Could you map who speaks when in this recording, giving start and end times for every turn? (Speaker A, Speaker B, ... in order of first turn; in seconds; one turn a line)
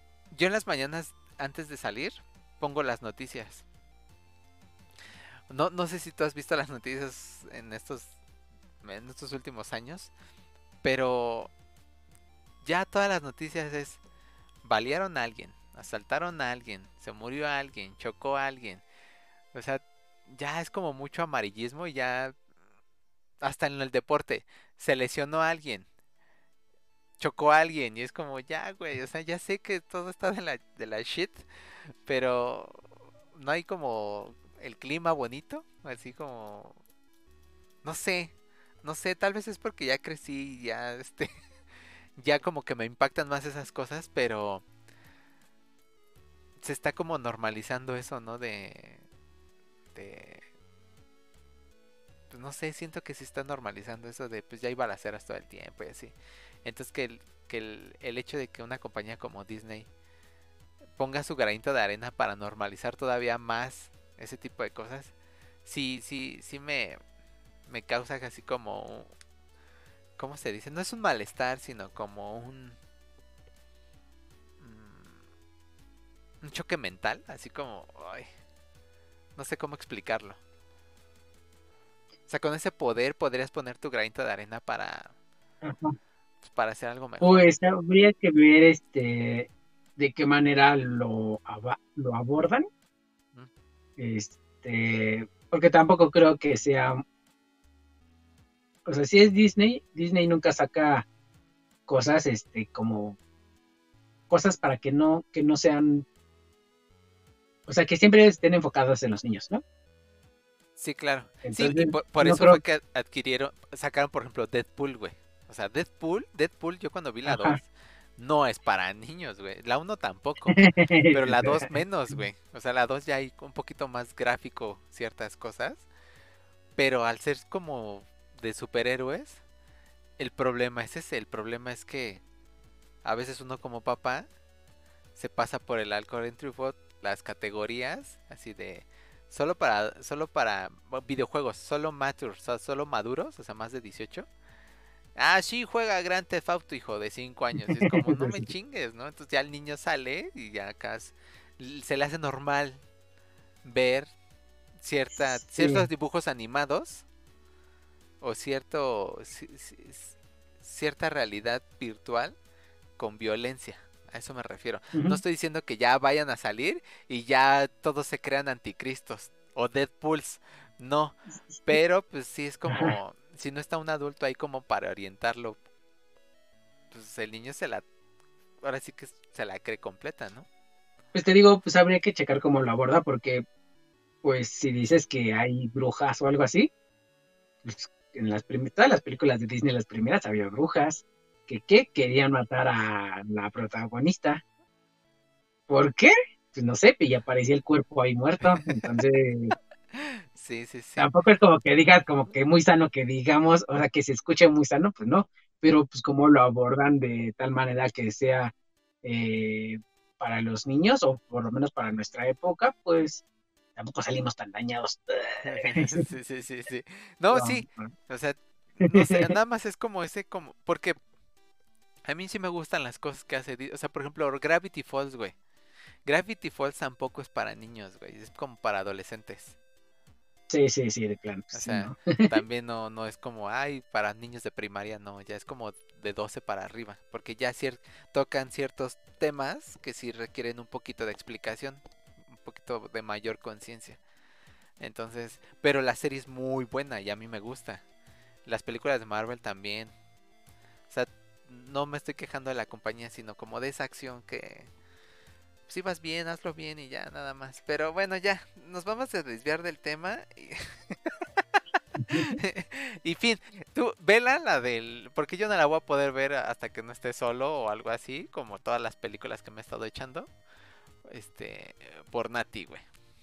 Speaker A: 0.3-3.6
Speaker A: 5.5-8.2
Speaker A: 8.8-10.1
Speaker A: 10.8-11.5
Speaker A: 12.6-14.0
Speaker A: 14.6-18.8
Speaker A: 19.5-22.4
Speaker A: 23.4-25.9
Speaker A: 27.2-36.8
Speaker A: 37.8-41.3
Speaker A: 42.2-44.6
Speaker A: 46.6-49.0
Speaker A: 49.9-50.4
Speaker A: 52.3-59.9
Speaker A: 61.0-65.1
Speaker A: 65.6-67.0
Speaker A: 67.7-69.1
Speaker A: 70.2-72.8
Speaker A: 74.6-75.2
Speaker A: 76.4-78.3
Speaker A: 79.3-80.4
Speaker A: 82.3-85.1
Speaker B: 85.6-86.0
Speaker A: 86.4-87.5
Speaker B: 87.2-92.7
Speaker B: 94.0-97.0
Speaker B: 98.8-101.0
Speaker B: 101.9-103.2
Speaker B: 104.3-106.0
Speaker B: 107.7-109.6
Speaker A: 110.8-125.8
Speaker B: 111.4-112.6
Speaker B: 117.2-117.6
Speaker B: 120.5-121.7
Speaker A: 126.8-129.4
Speaker A: 130.2-132.2
Speaker A: 133.0-134.3
Speaker A: 135.1-144.3
Speaker A: 145.2-152.8
Speaker B: 147.6-148.5
Speaker A: 153.6-154.1
Speaker A: 154.8-157.0
Speaker B: 155.1-155.9
Speaker A: 158.2-162.3
Speaker A: 163.0-175.6
Speaker B: 164.9-165.2
Speaker B: 171.5-171.8
Speaker B: 172.7-172.9
Speaker A: 176.9-177.8
Speaker A: 178.6-180.4
Speaker B: 181.1-183.4
Speaker B: 184.2-186.7
Speaker B: 187.6-194.4
Speaker B: 195.7-199.5
Speaker A: 198.4-198.8
Speaker A: 199.9-201.1
Speaker B: 201.0-213.2
Speaker B: 213.8-216.1
Speaker A: 215.4-221.0
Speaker B: 217.3-217.9
Speaker B: 218.8-219.3
Speaker A: 222.0-225.3
Speaker A: 226.0-229.6
Speaker B: 230.5-232.3
Speaker A: 231.5-244.0
Speaker A: 244.8-247.8
Speaker A: 248.4-249.9
Speaker A: 250.9-254.7
Speaker A: 255.7-261.2
Speaker B: 262.0-262.3
Speaker A: 262.1-270.3
Speaker A: 271.0-272.8